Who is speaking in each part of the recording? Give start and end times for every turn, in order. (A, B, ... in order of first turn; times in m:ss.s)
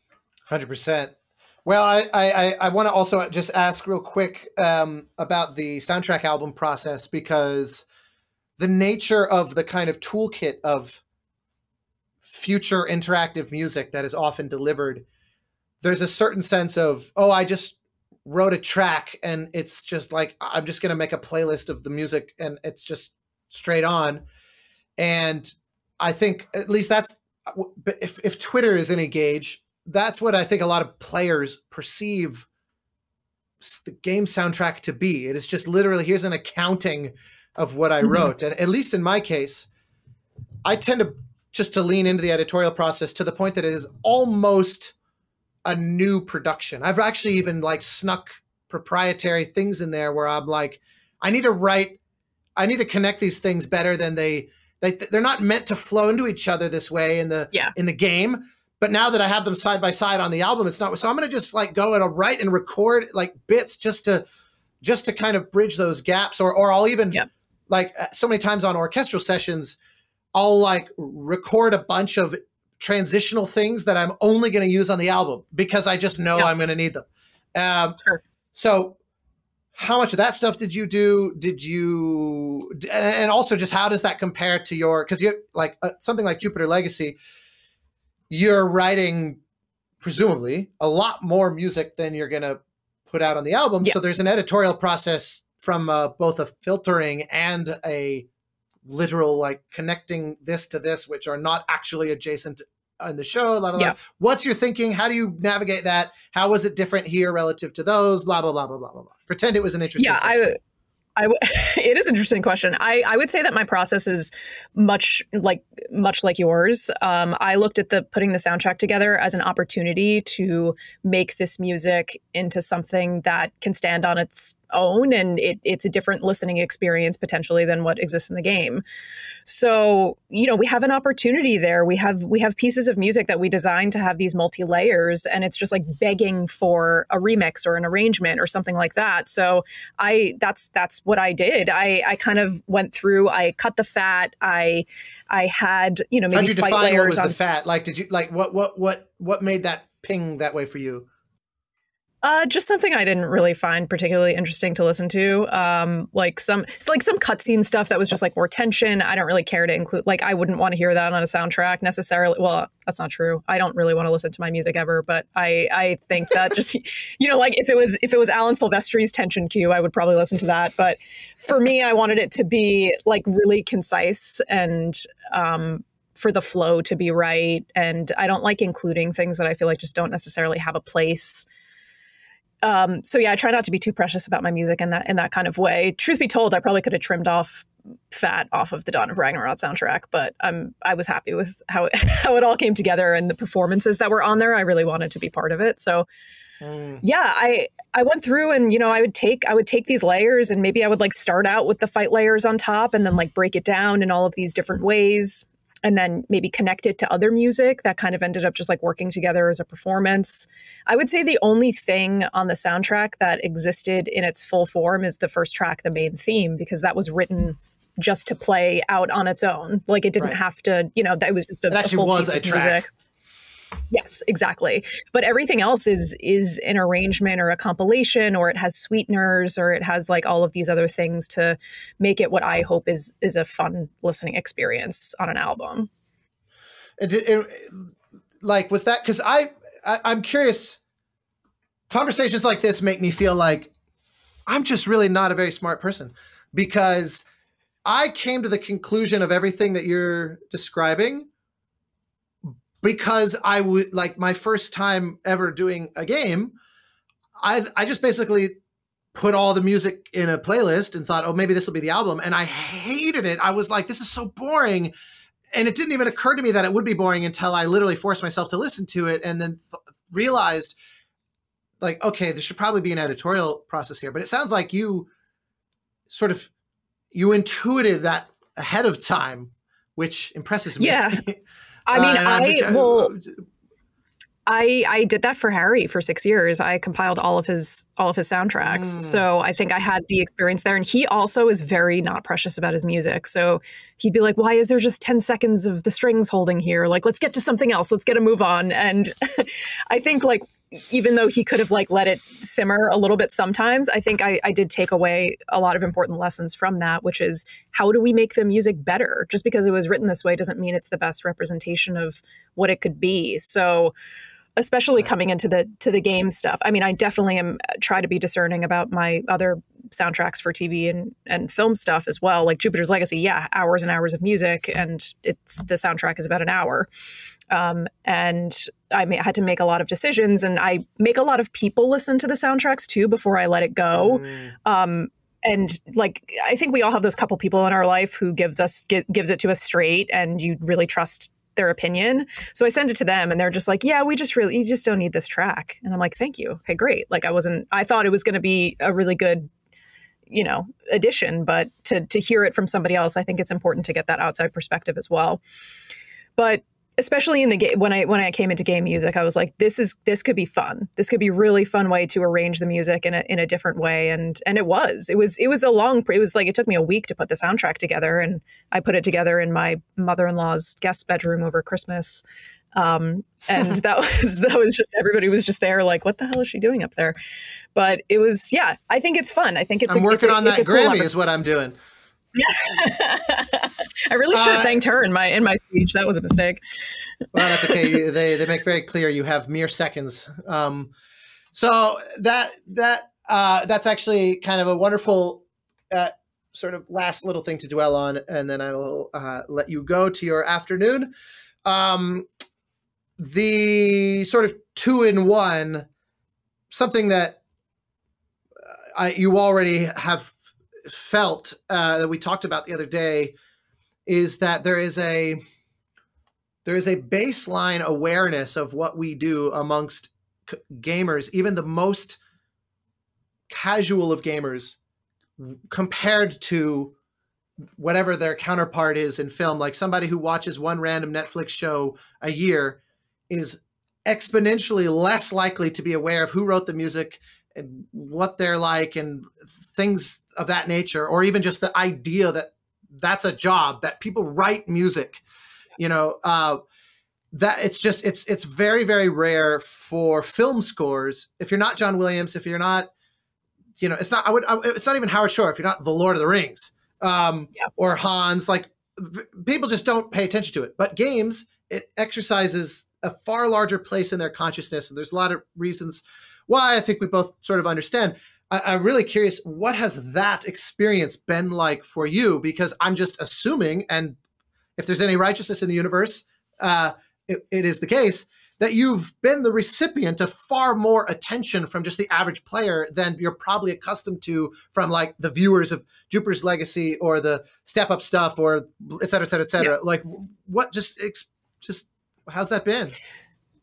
0:00.5-0:01.1 A
0:01.6-0:07.8 A
0:08.6-0:11.0 A
0:12.2-0:15.0 A
0:15.8-0:24.2 A
0:25.0-0:32.5 A
0:33.6-0:39.7 A
0:38.0-0:38.3 B
0:40.6-0:44.9 A
0:45.6-0:52.0 A
0:52.6-1:04.2 A
1:04.8-1:09.8 A
1:10.3-1:18.0 A
1:18.5-1:19.0 A
1:19.8-1:27.2 A
1:28.3-1:29.4 A
1:30.0-1:38.3 A
1:38.8-1:50.6 A
1:50.0-1:50.6 B
1:51.2-2:08.8 B
2:09.5-2:27.4 B
2:26.3-2:31.1 A
2:32.2-3:01.4 B
3:02.6-3:16.1 B
3:16.6-3:17.0 A
3:17.0-3:42.9 B
3:41.7-3:42.8 A
3:43.9-3:55.9 B
3:57.0-4:00.8 A
4:01.9-4:03.7 A
4:04.5-4:07.2 A
4:07.9-4:11.3 A
4:12.5-4:16.5 A
4:17.4-4:18.6 A
4:19.1-4:24.9 A
4:25.5-4:30.8 A
4:31.8-4:35.1 A
4:36.1-4:36.5 A
4:37.1-4:43.3 A
4:40.8-4:41.2 B
4:41.9-4:43.1 B
4:44.5-5:13.9 B
4:48.6-4:49.2 A
5:14.6-5:26.9 B
5:27.5-5:49.5 B
5:34.0-5:34.6 A
5:50.3-5:55.4 B
5:56.4-6:12.2 B
6:12.8-6:17.2 B
6:17.8-6:21.1 B
6:19.9-6:21.8 A
6:22.4-6:26.6 B
6:24.3-6:24.8 A
6:27.3-6:30.9 A
6:31.5-6:41.1 A
6:41.6-6:42.3 A
6:43.2-6:45.9 A
6:46.7-6:47.4 A
6:49.0-6:50.4 A
6:50.9-6:53.3 A
6:54.1-6:55.4 A
6:56.6-7:02.2 A
7:03.5-7:04.8 A
7:05.4-7:06.9 A
7:07.8-7:25.2 A
7:25.8-7:26.6 A
7:27.3-7:32.9 A
7:33.8-7:54.2 A
7:54.8-8:13.0 A